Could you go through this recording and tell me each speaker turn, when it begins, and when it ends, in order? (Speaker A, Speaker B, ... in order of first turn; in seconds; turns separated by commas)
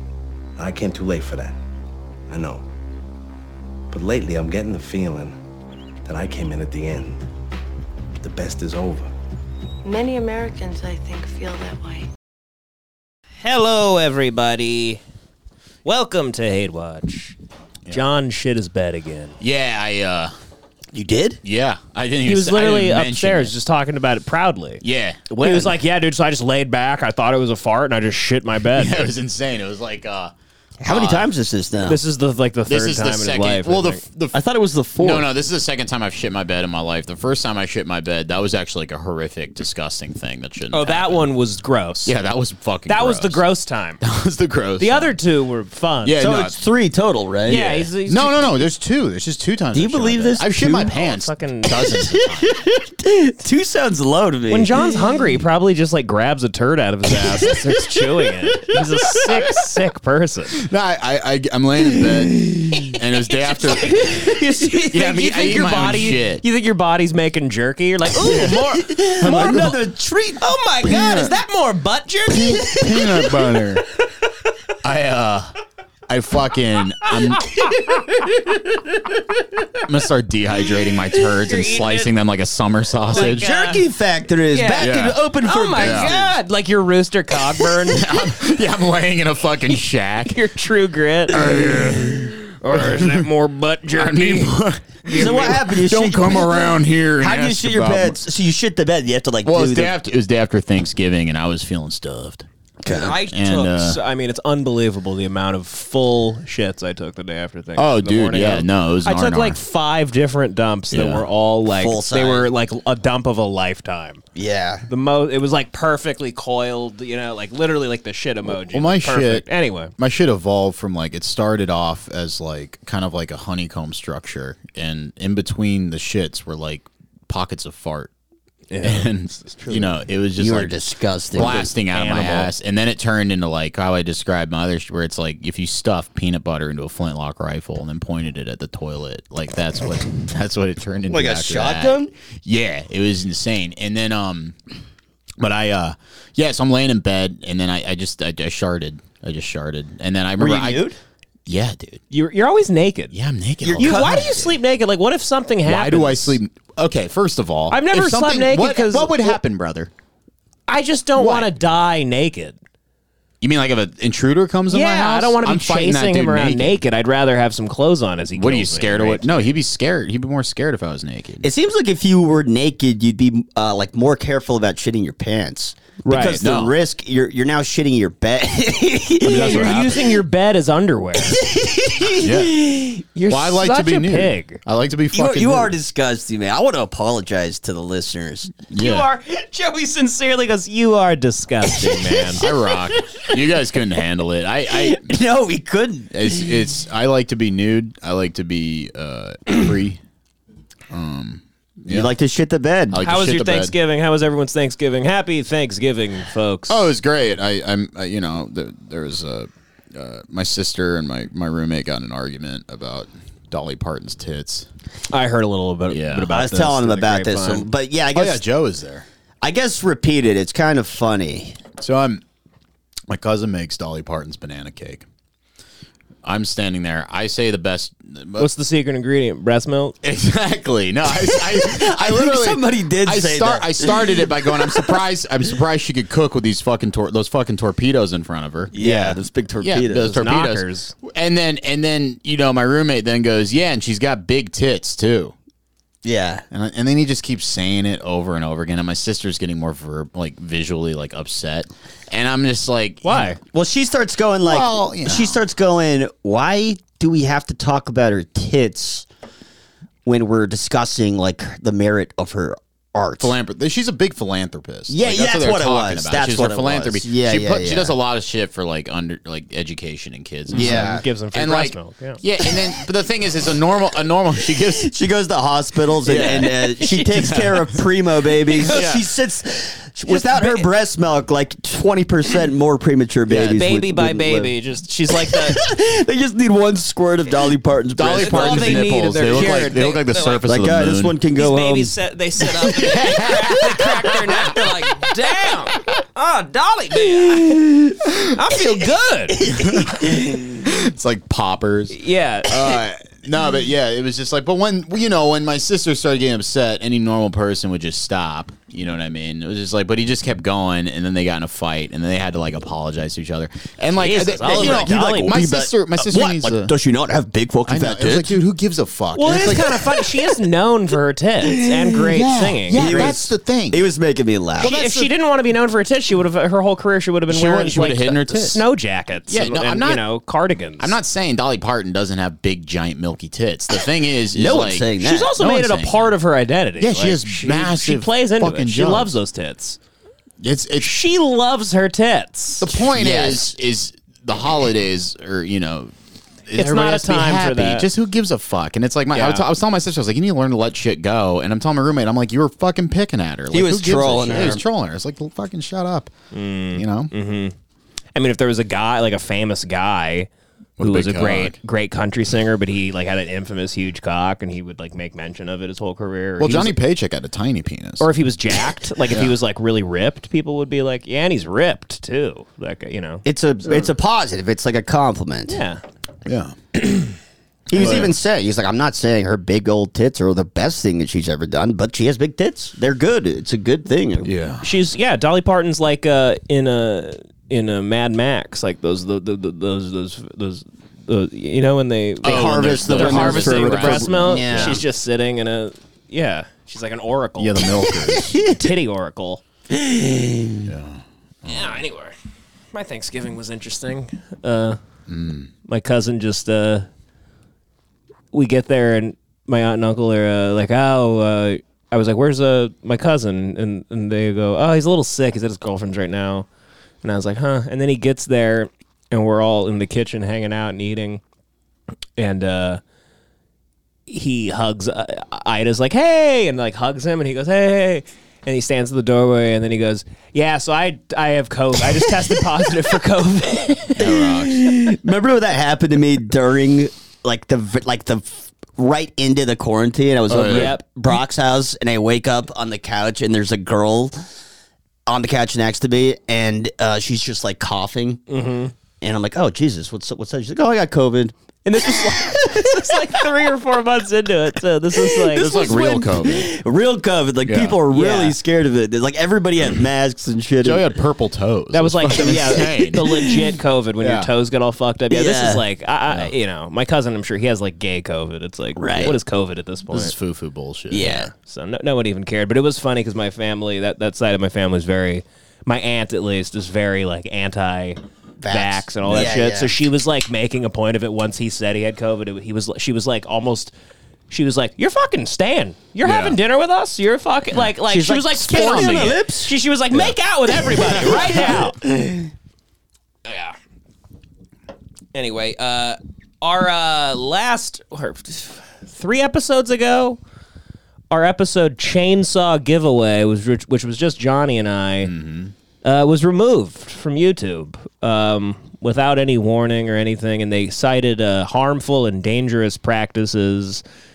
Speaker A: 0.6-1.6, Speaker A: 2.3-2.6, Speaker A: 3.9-5.4, Speaker A: 6.0-7.2, Speaker A: 8.2-9.1, Speaker B: 9.8-12.1, Speaker C: 13.4-15.0, Speaker C: 15.8-17.4, Speaker C: 17.9-19.4, Speaker D: 19.4-20.3, Speaker E: 20.9-21.4, Speaker D: 21.4-23.5, Speaker C: 22.2-24.8, Speaker D: 24.8-25.6, Speaker C: 25.3-29.1, Speaker D: 28.7-30.3, Speaker E: 30.8-32.0, Speaker D: 30.8-31.3, Speaker C: 31.9-34.0, Speaker D: 32.6-41.3, Speaker E: 34.3-35.2, Speaker C: 40.7-42.1, Speaker D: 42.0-43.4, Speaker C: 42.9-44.0, Speaker D: 44.0-45.1, Speaker C: 44.8-46.3, Speaker D: 46.0-46.6, Speaker E: 46.1-47.9, Speaker C: 47.4-48.3, Speaker D: 47.6-52.5, Speaker E: 49.7-50.9, Speaker C: 50.9-51.9, Speaker E: 52.2-55.0, Speaker C: 54.5-60.6, Speaker E: 57.3-58.6, Speaker D: 60.6-66.4, Speaker C: 63.8-69.8, Speaker D: 68.3-68.6, Speaker E: 68.4-70.4, Speaker D: 69.2-69.8, Speaker C: 70.4-72.9, Speaker D: 70.8-71.3, Speaker D: 72.3-73.8, Speaker D: 74.8-75.5, Speaker D: 76.1-77.7, Speaker D: 79.8-83.5, Speaker C: 81.4-82.1, Speaker C: 83.1-83.8, Speaker E: 83.1-86.3, Speaker C: 84.5-88.1, Speaker D: 84.8-85.2, Speaker D: 85.8-86.1, Speaker D: 87.8-90.4, Speaker C: 90.3-91.8, Speaker D: 91.3-93.1, Speaker C: 92.6-95.6, Speaker D: 93.9-98.2, Speaker E: 95.1-96.6, Speaker E: 97.2-99.9, Speaker D: 99.4-102.5, Speaker E: 102.8-103.2, Speaker C: 102.9-114.2, Speaker D: 103.0-104.0, Speaker D: 107.8-109.6, Speaker D: 110.9-111.2, Speaker E: 111.7-112.5, Speaker E: 114.3-114.8, Speaker C: 114.9-119.9, Speaker D: 118.5-119.5, Speaker D: 120.0-128.1, Speaker C: 128.7-129.9, Speaker D: 128.8-144.6, Speaker E: 130.4-131.7, Speaker C: 131.4-132.5, Speaker E: 141.1-142.1, Speaker D: 145.4-150.9, Speaker E: 150.4-151.0, Speaker D: 151.4-152.0, Speaker C: 152.1-153.1, Speaker D: 153.1-154.4, Speaker E: 153.6-154.5, Speaker C: 153.7-156.4, Speaker D: 155.6-159.9, Speaker C: 157.7-159.4, Speaker C: 160.7-162.6, Speaker D: 161.2-161.5, Speaker D: 163.4-166.8, Speaker C: 164.7-169.6, Speaker D: 168.3-171.5, Speaker E: 171.4-179.8, Speaker C: 176.0-176.5, Speaker D: 176.4-176.7, Speaker C: 179.2-181.4, Speaker D: 179.2-180.2, Speaker E: 181.4-183.0, Speaker D: 182.1-182.7, Speaker C: 183.1-184.6, Speaker D: 183.3-185.8, Speaker E: 185.1-188.7, Speaker D: 188.7-189.1, Speaker C: 188.8-192.4, Speaker D: 192.3-195.1, Speaker E: 194.7-196.4, Speaker D: 196.1-200.0, Speaker D: 200.9-202.1, Speaker E: 201.9-203.0, Speaker D: 202.9-203.7, Speaker C: 203.0-206.9, Speaker D: 206.7-214.7, Speaker C: 215.1-217.7, Speaker D: 215.9-216.3, Speaker E: 216.3-218.4, Speaker D: 218.1-219.1, Speaker E: 219.4-221.6, Speaker D: 221.8-222.2, Speaker D: 223.1-225.1, Speaker D: 226.2-228.5, Speaker C: 228.4-230.0, Speaker D: 230.0-245.3, Speaker E: 231.3-235.0, Speaker E: 238.7-240.2, Speaker C: 238.8-239.1, Speaker C: 240.1-240.9, Speaker E: 246.0-246.4, Speaker D: 246.5-253.3, Speaker C: 253.0-253.4, Speaker E: 253.4-259.1, Speaker D: 254.4-255.4, Speaker E: 260.0-263.4, Speaker D: 263.2-274.9, Speaker E: 264.9-267.9, Speaker C: 270.5-272.2, Speaker E: 270.5-271.0, Speaker E: 274.8-284.5, Speaker D: 276.0-277.8, Speaker C: 276.1-277.4, Speaker C: 278.6-279.0, Speaker D: 278.6-279.0, Speaker C: 280.0-280.7, Speaker C: 283.3-285.6, Speaker E: 285.1-289.9, Speaker D: 287.9-291.2, Speaker C: 288.1-290.4, Speaker E: 290.4-291.9, Speaker C: 291.4-297.6, Speaker D: 292.6-294.5, Speaker E: 297.3-297.9, Speaker C: 298.3-299.5, Speaker E: 299.4-299.7, Speaker D: 299.6-316.7, Speaker C: 301.9-302.5, Speaker C: 314.0-315.3, Speaker E: 314.4-318.4, Speaker D: 317.6-319.8, Speaker C: 319.1-323.2, Speaker E: 321.6-325.1, Speaker D: 322.7-323.9, Speaker D: 324.6-325.0, Speaker C: 324.6-330.9, Speaker D: 327.3-328.6, Speaker D: 329.3-330.0, Speaker D: 330.8-336.1, Speaker E: 334.3-335.3, Speaker C: 335.0-339.8, Speaker D: 336.8-339.1, Speaker D: 340.4-340.9, Speaker C: 340.8-342.7, Speaker D: 342.6-345.9, Speaker E: 342.9-343.5, Speaker D: 346.5-356.1, Speaker C: 346.5-347.9, Speaker C: 349.1-349.4, Speaker E: 353.5-354.6, Speaker C: 356.3-357.5, Speaker D: 356.7-357.1, Speaker C: 358.1-360.3, Speaker D: 360.8-361.6, Speaker C: 360.8-366.8, Speaker D: 366.4-368.1, Speaker C: 368.0-373.2, Speaker D: 369.1-369.3, Speaker E: 373.2-375.6, Speaker C: 375.5-375.8, Speaker D: 376.2-376.5, Speaker E: 377.7-384.3, Speaker D: 377.7-378.1, Speaker D: 384.2-384.6, Speaker C: 384.6-397.6, Speaker D: 392.2-394.8, Speaker E: 392.2-394.8, Speaker D: 397.4-398.4, Speaker E: 398.1-398.6, Speaker C: 398.4-399.4, Speaker E: 399.7-400.6, Speaker D: 400.6-401.8, Speaker C: 401.4-402.1, Speaker C: 402.7-404.8, Speaker D: 405.1-405.5, Speaker C: 405.7-406.9, Speaker C: 408.3-416.4, Speaker C: 417.0-421.2, Speaker C: 422.2-422.8, Speaker C: 424.1-434.1, Speaker D: 434.0-434.9, Speaker E: 434.1-444.2, Speaker D: 440.3-440.8, Speaker C: 440.5-440.8, Speaker E: 445.1-448.2, Speaker C: 448.3-448.7, Speaker E: 449.0-451.3, Speaker C: 451.6-456.1, Speaker D: 455.3-456.5, Speaker E: 455.6-460.9, Speaker D: 457.4-457.8, Speaker C: 457.9-458.4, Speaker D: 460.6-463.1, Speaker C: 461.7-470.1, Speaker E: 462.2-462.6, Speaker D: 464.0-464.3, Speaker E: 465.1-465.6, Speaker E: 468.8-469.1, Speaker D: 469.9-471.1, Speaker E: 470.9-471.3, Speaker C: 471.0-483.7, Speaker E: 478.4-479.8, Speaker C: 484.3-491.7, Speaker D: 486.0-486.4, Speaker E: 487.8-489.5, Speaker D: 488.5-489.2, Speaker E: 490.6-492.3, Speaker D: 491.1-491.4, Speaker C: 493.2-493.6, Speaker C: 495.1-500.2, Speaker C: 501.1-505.1, Speaker D: 505.0-505.5, Speaker C: 505.8-513.8